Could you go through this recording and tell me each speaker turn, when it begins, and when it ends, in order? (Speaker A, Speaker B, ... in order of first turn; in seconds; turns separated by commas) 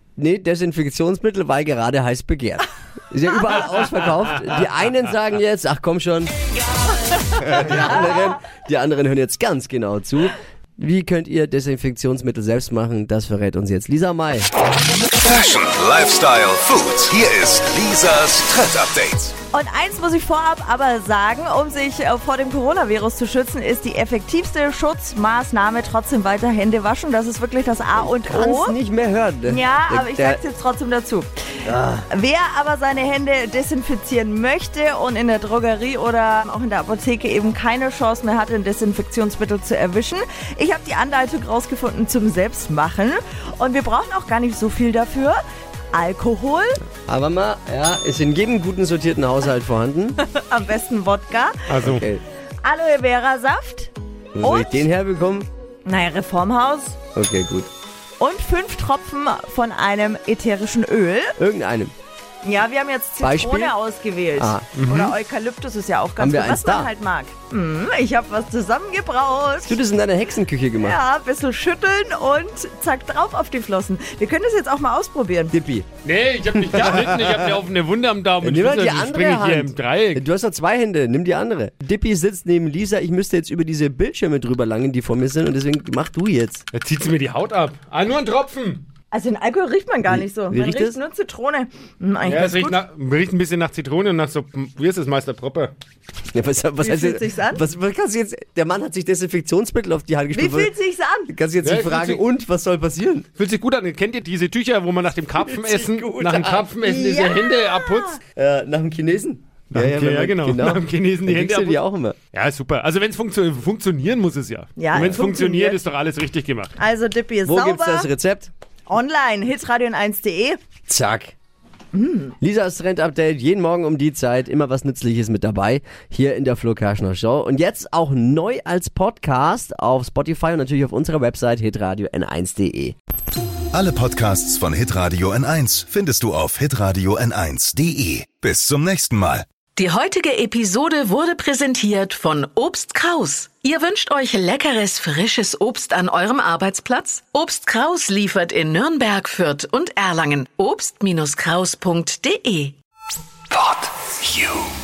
Speaker A: 0.2-6.3, Speaker A: 7.4-14.5, Speaker B: 15.2-19.4, Speaker C: 19.5-28.8, Speaker A: 27.9-30.4, Speaker C: 29.5-31.3, Speaker A: 31.6-32.0, Speaker C: 32.1-45.4, Speaker C: 45.9-46.8, Speaker A: 47.1-50.2, Speaker C: 50.2-51.7, Speaker D: 51.7-52.0, Speaker A: 51.8-52.2, Speaker C: 52.6-54.9, Speaker A: 54.3-55.5, Speaker C: 55.8-57.0, Speaker A: 57.1-57.7, Speaker C: 58.2-61.4, Speaker A: 61.4-61.9, Speaker C: 62.4-69.8, Speaker A: 63.2-63.7, Speaker A: 64.4-64.7, Speaker D: 64.8-65.1, Speaker A: 66.2-66.9, Speaker A: 69.7-71.0, Speaker C: 70.8-75.6, Speaker A: 75.5-75.9, Speaker D: 76.0-80.3, Speaker A: 76.5-77.6, Speaker A: 78.4-86.7, Speaker D: 86.7-88.8, Speaker C: 89.1-92.8, Speaker A: 90.1-91.0, Speaker D: 92.2-95.7, Speaker A: 96.3-100.7, Speaker C: 96.8-97.7, Speaker C: 100.3-101.3, Speaker A: 101.3-103.3, Speaker D: 101.6-102.2, Speaker D: 103.4-108.2, Speaker A: 105.4-106.7, Speaker C: 106.8-108.1, Speaker A: 108.3-112.2, Speaker D: 109.7-111.8, Speaker D: 112.3-116.7, Speaker C: 114.8-115.8, Speaker A: 115.0-115.3, Speaker C: 116.8-118.1, Speaker A: 117.5-118.5, Speaker C: 118.9-120.6, Speaker A: 120.9-121.3, Speaker C: 121.9-122.3, Speaker A: 122.4-132.9, Speaker B: 133.7-139.5, Speaker E: 139.8-152.8, Speaker E: 153.5-154.7